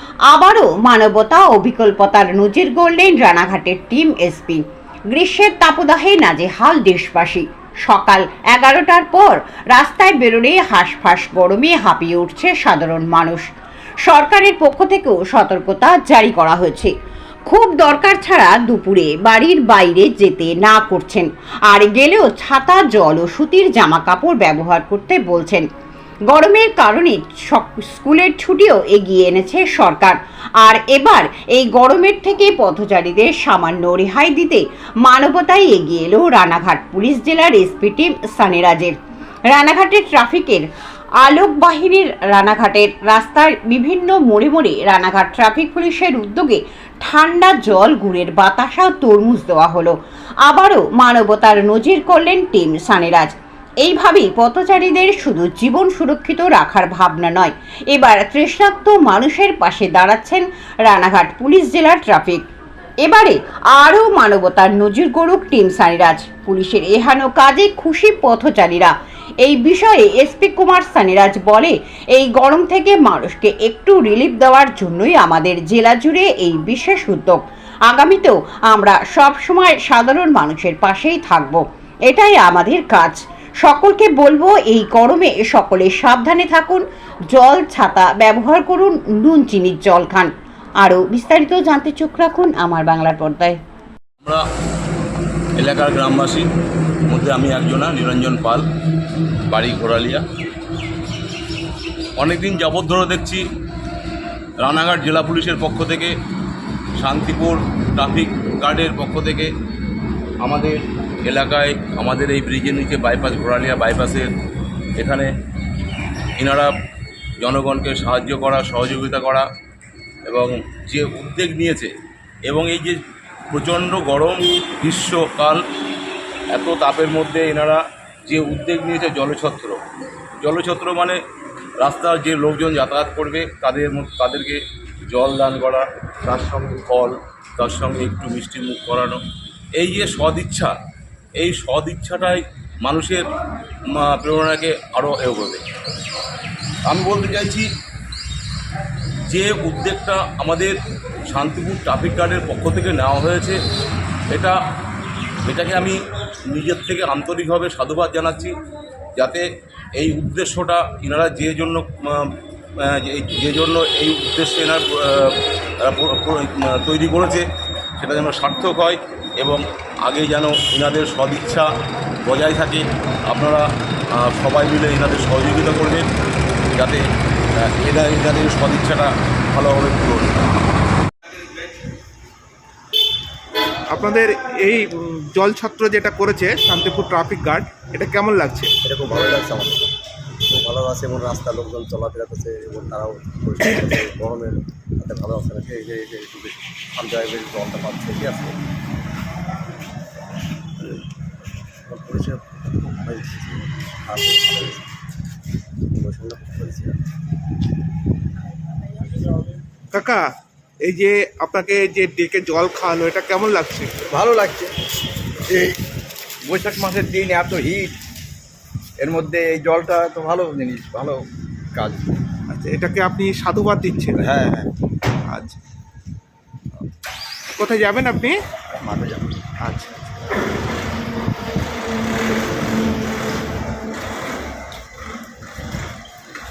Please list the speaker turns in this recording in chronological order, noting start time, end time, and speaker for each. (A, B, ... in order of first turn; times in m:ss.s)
0:00.3-0:13.5 A
0:14.0-0:16.9 A
0:17.5-0:25.6 A
0:26.3-0:39.0 A
0:39.5-0:40.7 A
0:41.2-1:02.4 A
1:03.0-1:33.6 A
1:35.6-1:36.5 B
1:37.1-1:38.6 B
1:39.5-1:40.2 B
1:42.2-1:43.4 B
1:44.6-1:46.1 B
1:47.0-1:49.5 B
1:50.4-1:54.3 B
1:55.0-1:55.3 B
1:56.4-1:56.7 B
1:57.4-1:59.4 B
2:00.3-2:01.9 B
2:02.5-2:03.0 B
2:03.5-2:05.6 B
2:06.5-2:09.8 B
2:10.4-2:11.2 B
2:11.8-2:19.2 B
2:19.8-2:20.7 B
2:21.4-2:23.2 B
2:23.9-2:25.6 B
2:26.9-2:27.7 B
2:29.3-2:30.8 B
2:31.3-2:33.6 B
2:34.3-2:34.6 B
2:35.4-2:36.0 B
2:36.5-2:38.5 B
2:39.2-2:39.4 B
2:40.0-2:47.4 B
2:48.0-2:51.7 B
2:52.2-2:53.6 B
2:54.2-2:56.0 B
2:56.7-2:57.0 B
2:57.6-3:00.4 B
3:03.9-3:08.7 C
3:08.8-3:09.9 D
3:10.5-3:18.6 D
3:21.9-3:24.9 D
3:25.9-3:27.0 D
3:29.9-3:30.2 C
3:30.8-3:33.9 C
3:34.1-3:34.7 E
3:35.5-3:35.8 E
3:36.4-3:37.9 E
3:39.0-3:41.2 E
3:41.7-3:42.0 E
3:42.5-3:44.2 C
3:44.2-3:44.7 E
3:45.3-3:45.6 C
3:47.6-3:48.4 C
3:48.7-3:49.3 E
3:49.6-3:50.0 C